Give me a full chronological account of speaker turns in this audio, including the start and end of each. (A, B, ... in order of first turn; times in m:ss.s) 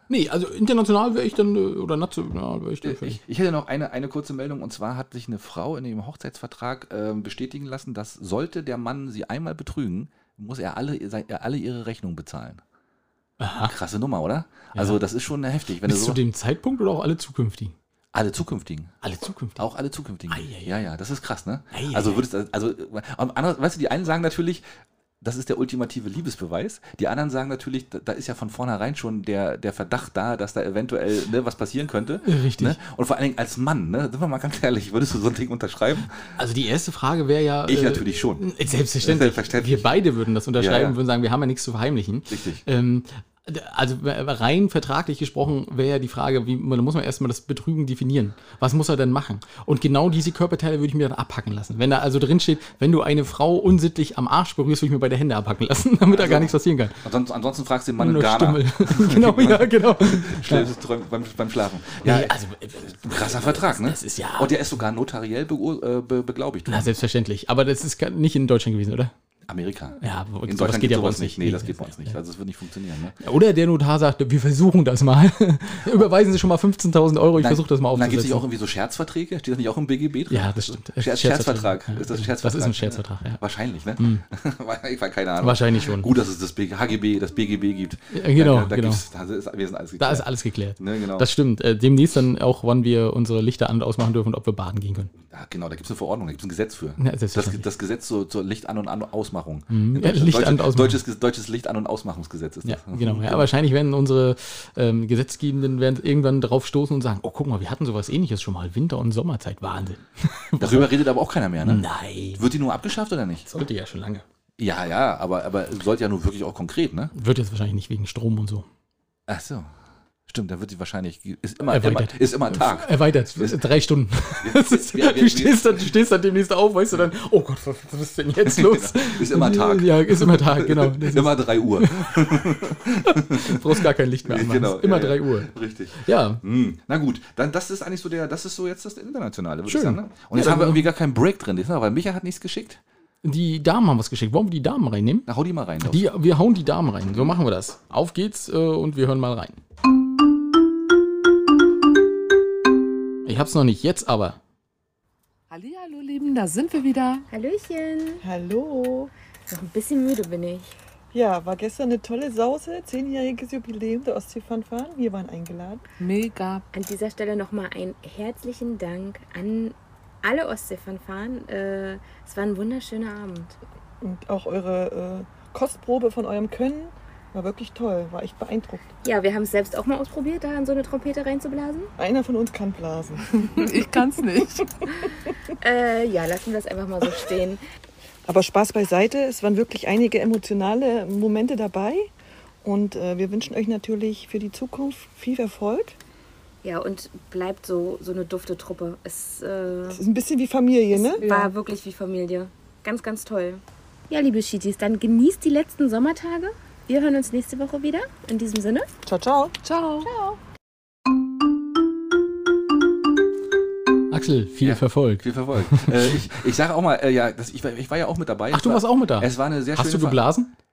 0:00.1-0:03.2 A
0:02.8-0:12.6 B
0:13.4-0:13.7 A
0:13.6-0:16.2 B
0:15.8-0:17.8 A
0:18.1-0:19.0 B
0:19.0-0:19.6 A
0:19.6-0:24.6 B
0:20.3-0:20.7 A
0:21.7-0:22.2 A
0:25.2-0:36.3 B
0:32.2-0:32.8 A
0:36.4-0:57.0 A
0:37.7-0:39.9 B
0:40.6-0:41.0 B
0:42.3-0:42.6 B
0:56.1-1:06.9 B
0:58.0-1:00.7 A
1:02.0-1:04.5 A
1:06.7-1:09.1 A
1:09.5-1:13.2 B
1:10.0-1:12.2 A
1:13.2-1:18.4 A
1:17.4-1:30.3 B
1:20.3-1:23.4 A
1:24.0-1:24.2 A
1:25.4-1:26.1 A
1:28.1-1:29.0 A
1:30.0-1:35.1 A
1:30.8-1:31.3 B
1:35.3-1:43.5 B
1:37.0-1:37.7 A
1:39.7-1:41.0 A
1:42.6-1:51.0 A
1:50.6-1:53.5 B
1:51.6-1:52.4 A
1:53.5-1:54.2 A
1:54.6-1:57.1 B
1:57.2-1:58.7 A
1:59.3-1:59.7 B
2:00.3-2:03.7 B
2:01.7-2:12.1 A
2:04.4-2:05.8 B
2:08.4-2:22.8 B
2:13.0-2:16.4 A
2:19.7-2:20.8 A
2:23.2-2:25.3 A
2:25.3-2:26.0 B
2:25.8-2:29.6 A
2:33.2-2:34.4 A
2:35.5-2:37.3 C
2:37.3-2:38.2 D
2:38.2-2:39.1 E
2:39.5-2:40.7 D
2:41.1-2:45.8 E
2:46.0-2:46.6 C
2:46.7-2:53.6 D
2:54.0-2:58.9 E
2:59.0-3:01.9 D
3:02.0-3:03.6 E
3:03.5-3:04.7 C
3:05.6-3:07.6 D
3:08.3-3:12.1 E
3:12.6-3:16.0 E
3:16.6-3:20.0 D
3:19.9-3:21.2 E
3:20.9-3:28.9 D
3:21.2-3:21.5 C
3:29.1-3:29.6 E
3:29.6-3:30.4 C
3:34.1-3:36.2 A
3:34.6-3:40.2 B
3:38.5-3:40.5 A